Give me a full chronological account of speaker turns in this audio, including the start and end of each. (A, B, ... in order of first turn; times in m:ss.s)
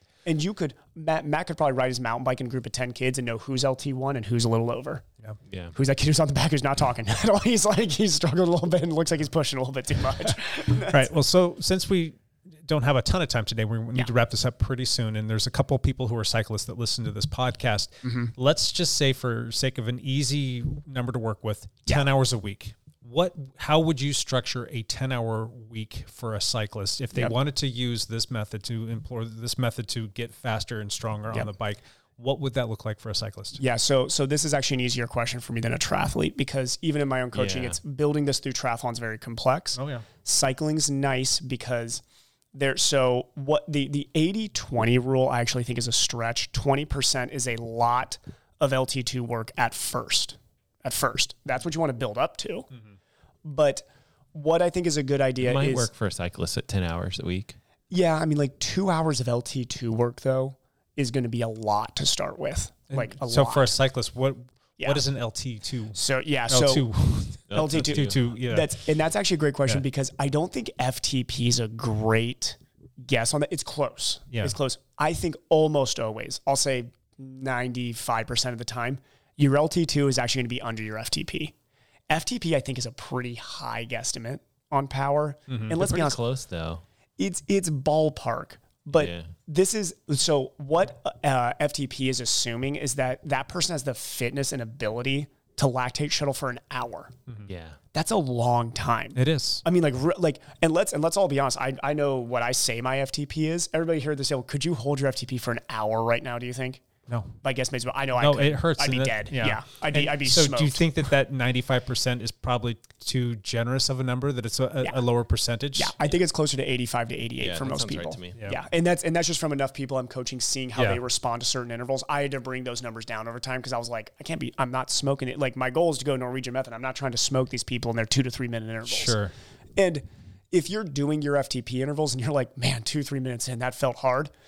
0:00.2-0:05.0 A
0:05.5-0:05.8 B
0:05.8-0:11.1 A
0:10.8-0:33.6 C
0:18.0-0:18.3 A
0:33.6-0:42.0 A
0:37.3-0:37.8 B
0:39.8-0:40.0 C
0:42.5-0:52.7 A
0:53.4-0:55.9 A
0:55.4-0:57.6 B
0:57.9-1:03.7 A
1:02.9-1:06.0 C
1:04.8-1:05.0 A
1:06.0-1:06.9 A
1:06.5-1:08.7 C
1:07.5-1:08.2 B
1:07.5-1:21.5 A
1:14.3-1:14.6 C
1:22.1-1:26.2 A
1:25.5-1:25.7 C
1:25.8-1:26.8 B
1:27.2-1:37.1 A
1:28.9-1:29.3 B
1:37.5-1:37.8 B
1:37.9-1:46.8 A
1:39.2-1:39.6 C
1:47.1-1:47.3 C
1:47.4-1:50.8 A
1:48.2-1:56.0 C
1:55.8-2:09.2 A
1:57.4-1:58.4 B
2:00.8-2:01.0 C
2:08.9-2:09.3 C
2:09.8-2:14.3 A